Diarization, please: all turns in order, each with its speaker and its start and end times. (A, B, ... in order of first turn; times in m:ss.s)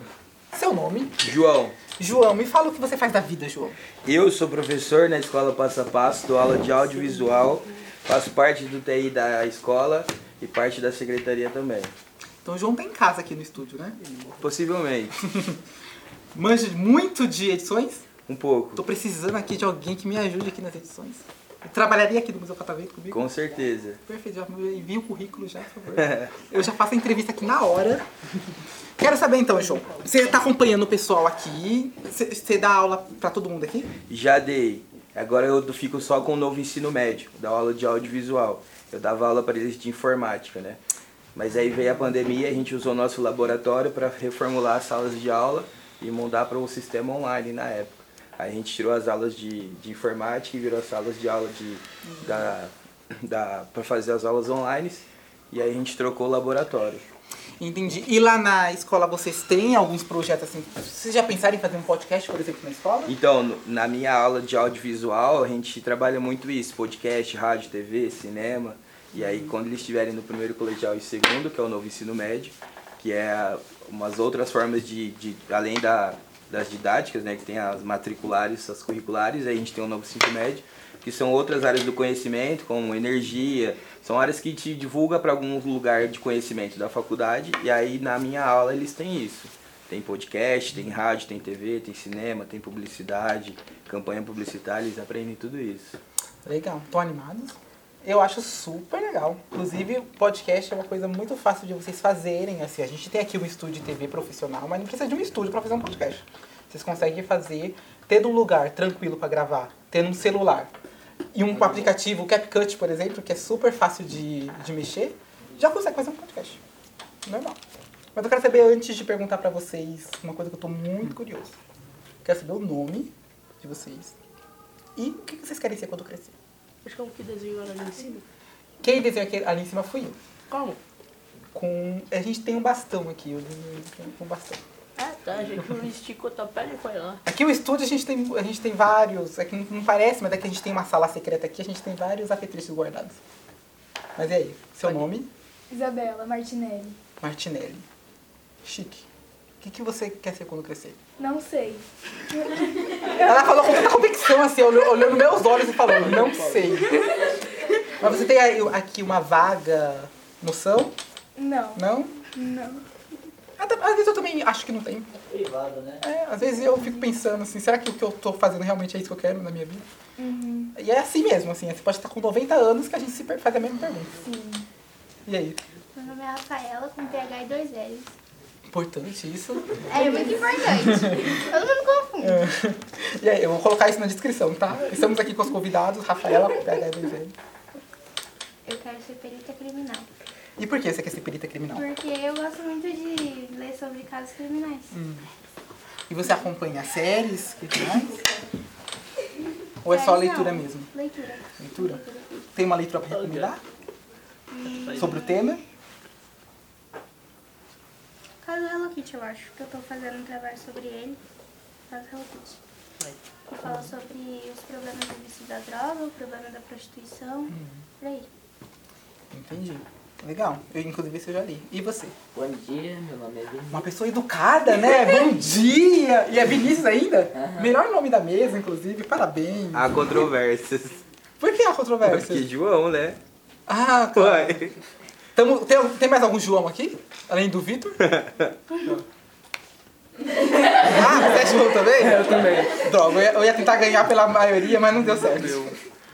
0:00.5-0:01.2 A
0:01.2-0:01.8 B
0:02.0-0:03.8 A
0:04.0-0:11.9 B
0:12.4-0:14.0 A
0:14.4-0:15.2 B
0:15.2-0:15.6 A
0:16.3-0:18.0 A
0:18.3-0:18.8 B
0:18.8-0:23.3 A
0:23.1-0:24.0 B
0:24.0-0:28.0 A
0:26.0-0:26.3 B
0:29.0-0:33.9 A
0:34.1-0:40.8 B
0:41.3-0:57.1 B
0:52.1-0:52.5 A
0:57.6-1:03.2 A
1:03.0-1:36.0 B
1:09.1-1:09.5 A
1:36.4-1:50.7 A
1:51.3-1:56.6 A
1:57.2-1:57.6 A
1:58.2-2:01.6 A
2:02.2-2:04.2 A
2:05.0-2:06.3 A
2:06.8-2:08.2 C
2:08.8-2:10.2 A
2:10.5-2:10.8 C
2:11.5-2:14.6 A
2:15.0-2:17.2 C
2:17.2-2:23.2 A
2:24.2-2:25.3 A
2:25.7-2:27.0 D
2:27.2-2:27.8 A
2:28.6-2:29.0 A
2:29.6-2:31.0 A
2:31.2-2:31.8 D
2:33.2-2:37.1 A
2:38.0-2:40.9 A
2:41.4-2:41.8 D
2:41.7-2:42.1 A
2:42.4-2:42.8 D
2:43.6-2:45.1 A
2:45.3-2:46.0 E
2:46.0-2:49.8 A
2:50.2-2:50.7 D
2:50.7-2:54.1 A
2:54.2-2:54.6 D
2:55.2-2:55.6 A
2:55.9-2:58.1 F
2:58.7-3:01.4 A
2:59.9-3:02.4 F
3:02.2-3:07.3 A
3:08.6-3:10.1 F
3:10.6-3:11.8 A
3:11.7-3:14.9 F
3:14.9-3:15.2 A
3:16.1-3:18.2 A
3:19.8-3:20.9 A
3:19.9-3:22.4 F
3:21.6-3:22.0 A
3:22.5-3:23.6 A
3:23.1-3:23.5 C
3:24.5-3:25.2 F
3:24.8-3:25.2 C
3:24.9-3:25.6 A
3:28.4-3:31.2 F
3:31.9-3:32.6 F
3:33.5-3:38.3 F
3:37.5-3:37.8 A
3:39.3-3:42.1 A
3:42.3-3:43.8 E
3:43.7-3:50.2 A
3:47.4-3:47.7 E
3:49.7-3:51.0 B
3:51.4-3:52.5 A
3:52.0-3:53.2 B
3:53.7-3:54.7 A
3:54.2-3:54.7 B
3:55.3-3:58.0 A
3:58.2-3:58.4 B
4:00.8-4:05.7 A
4:00.8-4:01.2 D
4:02.0-4:02.8 D
4:04.9-4:05.8 D